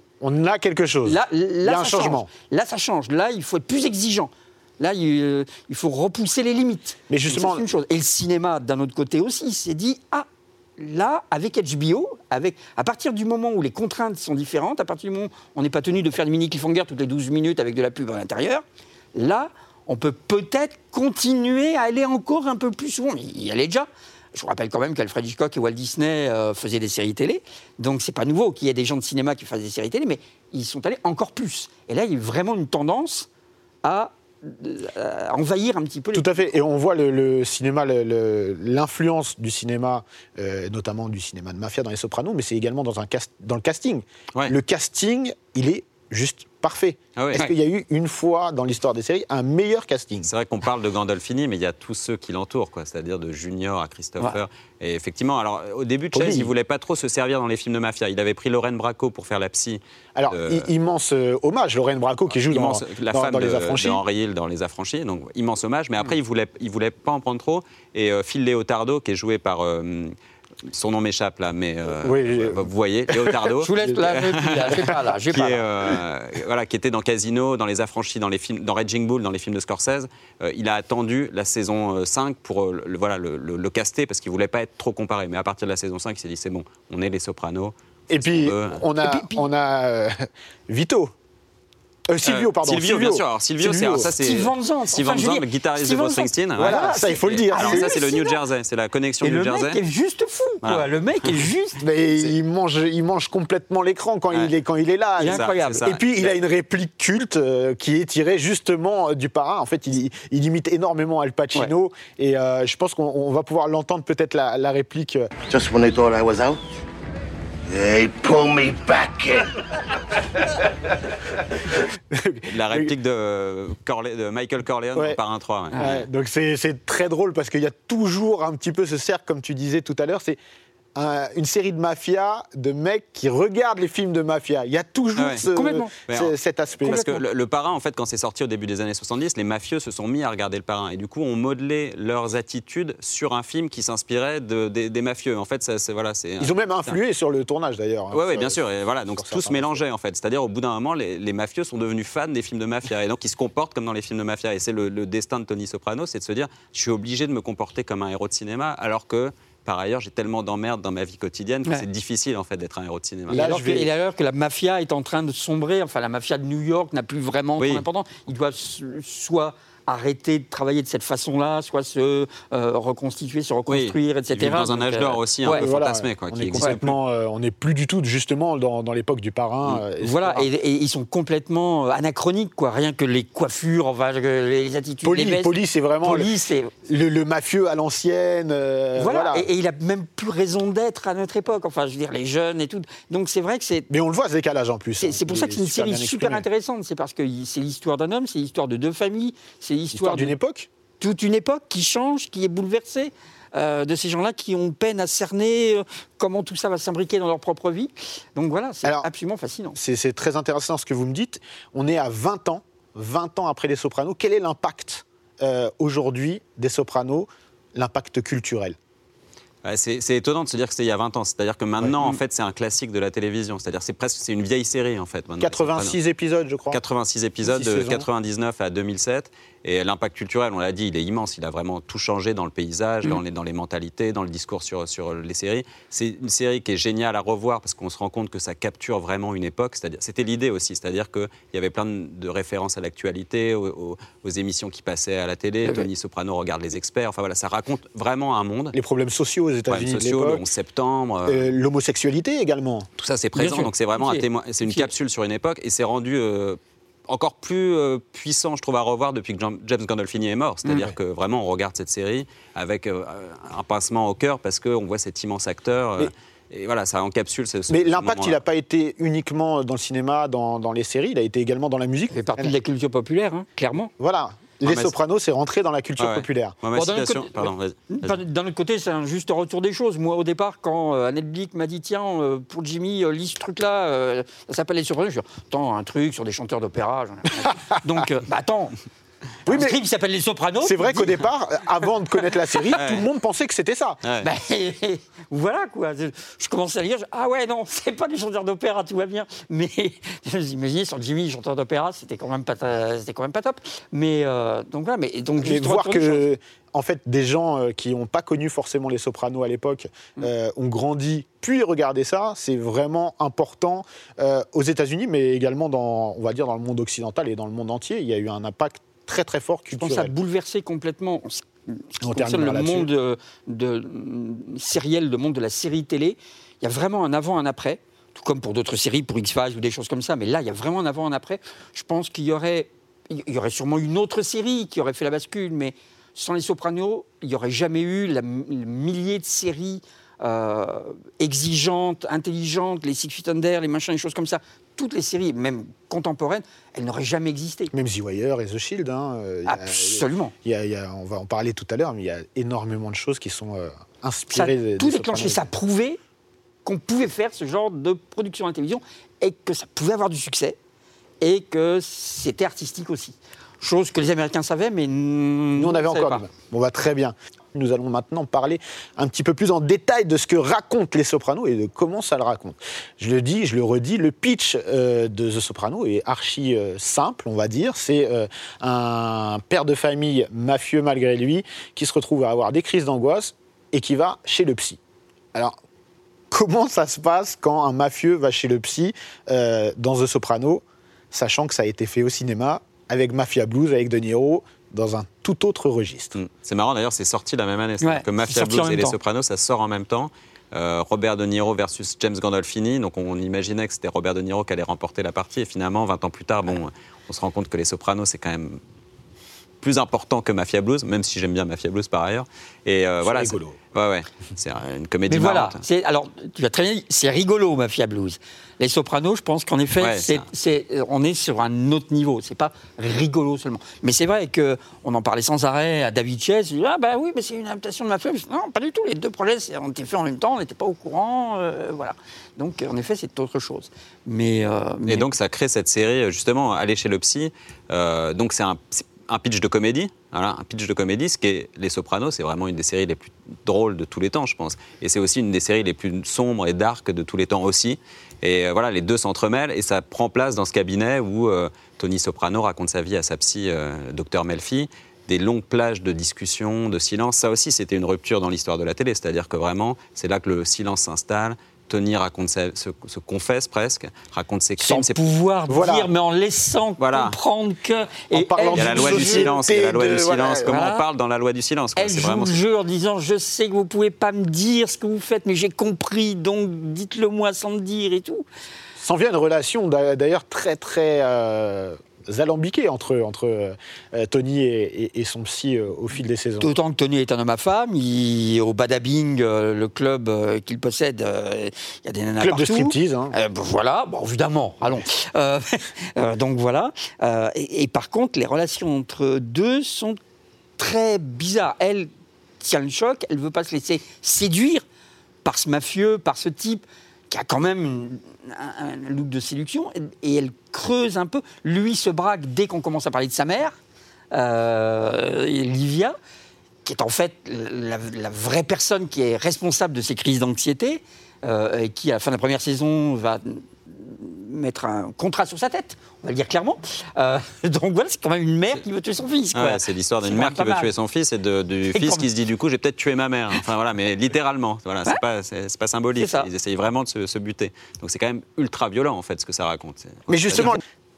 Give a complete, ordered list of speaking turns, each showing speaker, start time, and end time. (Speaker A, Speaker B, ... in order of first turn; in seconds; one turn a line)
Speaker A: 0.2-2.3
Speaker B: 1.0-10.3
Speaker A: 7.1-7.7
Speaker B: 10.8-18.6
Speaker B: 19.1-33.3
Speaker B: 33.8-36.5
Speaker A: 36.1-50.3
Speaker C: 47.2-47.5
Speaker C: 50.2-60.7
Speaker A: 56.1-56.5
Speaker A: 60.2-64.0
Speaker C: 62.4-70.1
Speaker C: 70.7-88.8
Speaker A: 71.9-74.0
Speaker B: 73.6-75.7
Speaker A: 88.1-91.1
Speaker B: 89.0-89.5
Speaker A: 92.1-94.1
Speaker C: 92.2-99.8
Speaker B: 94.0-98.4
Speaker A: 96.6-98.0
Speaker B: 99.2-101.8
Speaker C: 100.6-100.9
Speaker A: 101.8-115.3
Speaker B: 105.2-105.9
Speaker C: 105.2-106.3
Speaker D: 115.5-116.6
Speaker D: 117.7-119.5
Speaker A: 122.1-122.9
Speaker C: 122.5-126.0
Speaker B: 125.7-126.0
Speaker A: 125.8-130.4
Speaker A: 130.9-137.1
Speaker C: 135.2-135.5
Speaker B: 135.4-135.9
Speaker C: 136.1-147.0
Speaker B: 136.8-137.2
Speaker A: 146.4-148.6
Speaker C: 148.1-163.7
Speaker A: 149.2-149.8
Speaker A: 163.3-163.9
Speaker B: 163.3-175.7
Speaker C: 167.6-167.9
Speaker C: 173.7-177.0
Speaker A: 175.5-180.5
Speaker B: 180.0-186.7
Speaker A: 185.1-186.3
Speaker A: 186.8-189.5
Speaker B: 188.9-193.9
Speaker A: 193.9-196.4
Speaker B: 195.0-200.3
Speaker A: 199.9-200.7
Speaker B: 201.0-209.8
Speaker A: 209.8-218.8
Speaker C: 219.7-226.0
Speaker A: 221.8-222.2
Speaker A: 225.4-226.8
Speaker C: 226.7-248.8
Speaker A: 227.4-228.1
Speaker A: 248.7-250.4
Speaker C: 249.7-251.5
Speaker A: 251.3-252.9
Speaker C: 253.0-268.4
Speaker B: 253.3-254.9
Speaker A: 260.7-260.9
Speaker A: 267.7-272.5
Speaker B: 272.1-273.9
Speaker A: 274.0-276.6
Speaker C: 274.6-274.9
Speaker C: 276.0-278.2
Speaker B: 276.7-288.8
Speaker A: 289.5-289.8
Speaker B: 289.5-291.2
Speaker A: 290.6-294.0
Speaker C: 292.8-293.1
Speaker C: 294.0-294.3
Speaker B: 294.2-306.3
Speaker A: 305.4-320.1
Speaker B: 319.8-347.7
Speaker A: 322.0-322.9
Speaker A: 347.7-355.5
Speaker B: 349.4-350.3
Speaker B: 354.3-356.0
Speaker B: 356.6-360.6
Speaker B: 361.2-366.2
Speaker A: 365.6-384.8
Speaker A: 386.3-396.1
Speaker C: 396.1-408.6
Speaker B: 397.8-399.0
Speaker C: 409.6-415.6
Speaker A: 413.0-413.6
Speaker B: 415.1-435.1
Speaker C: 419.8-420.3
Speaker C: 434.9-465.0
Speaker B: 464.6-469.3
Speaker A: 465.5-465.9
Speaker C: 466.8-467.2
Speaker A: 468.1-470.5
Speaker C: 468.5-472.4
Speaker B: 470.4-470.8
Speaker B: 471.8-478.2
Speaker A: 478.8-486.5
Speaker B: 486.4-500.0
Speaker A: 492.2-493.1
Speaker B: 500.6-504.6
Speaker B: 505.2-513.6
Speaker B: 514.1-516.0
Speaker B: 516.6-530.7
Speaker C: 529.3-540.6
Speaker B: 531.7-532.1
Speaker B: 536.0-536.3
Speaker A: 540.1-540.6